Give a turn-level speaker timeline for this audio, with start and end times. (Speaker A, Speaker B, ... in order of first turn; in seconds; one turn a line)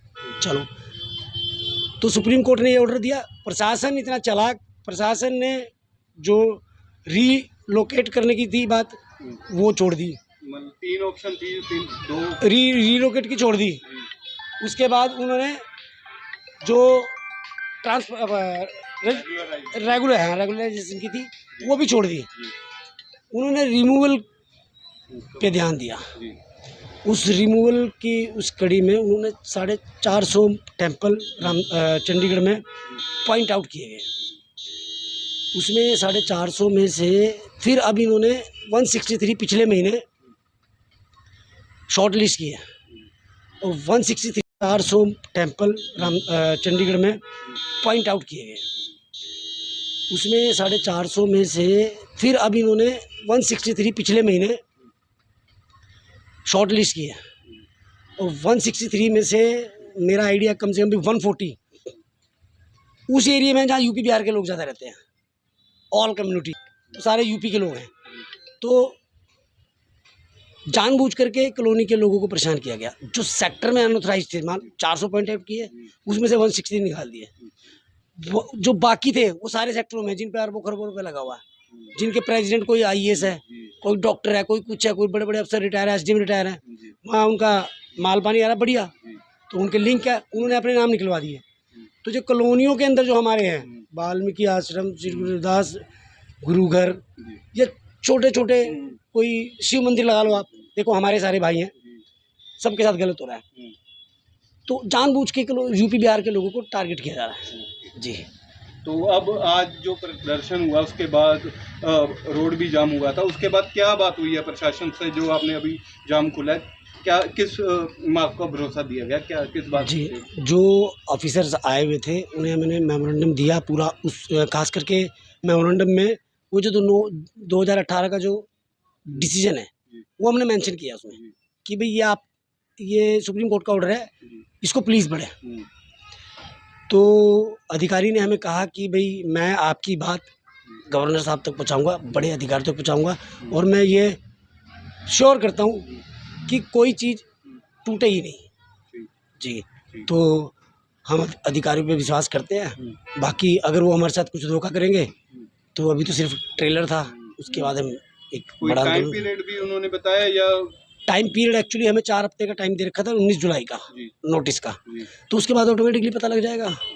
Speaker A: 0.4-0.7
Speaker A: 2.0-10.2
Speaker B: 10.4-12.4
Speaker A: 12.4-13.8
Speaker A: 14.6-15.6
Speaker A: 16.6-17.2
Speaker A: 17.8-22.3
Speaker B: 19.1-19.8
Speaker A: 23.3-24.2
Speaker B: 25.1-25.4
Speaker A: 25.4-26.1
Speaker A: 27.1-32.6
Speaker A: 33.2-34.1
Speaker A: 35.5-40.0
Speaker A: 41.9-42.6
Speaker A: 43.6-47.2
Speaker A: 47.8-48.7
Speaker A: 50.1-54.6
Speaker A: 56.5-57.2
Speaker A: 58.2-61.6
Speaker A: 63.1-65.0
Speaker A: 65.9-67.9
Speaker A: 68.6-69.0
Speaker A: 70.7-77.3
Speaker A: 78.2-81.4
Speaker A: 81.9-88.9
Speaker A: 89.5-91.4
Speaker A: 92.0-95.8
Speaker A: 96.4-101.7
Speaker A: 102.6-103.4
Speaker A: 104.7-108.3
Speaker B: 107.5-107.9
Speaker B: 108.8-120.2
Speaker A: 119.8-128.5
Speaker A: 129.1-132.3
Speaker A: 132.8-134.1
Speaker A: 134.6-135.3
Speaker A: 136.9-140.3
Speaker A: 140.9-144.2
Speaker A: 145.1-147.3
Speaker A: 147.8-148.5
Speaker A: 149.4-150.5
Speaker A: 151.1-155.1
Speaker A: 155.8-159.3
Speaker B: 157.2-157.5
Speaker B: 158.6-160.8
Speaker A: 161.1-166.8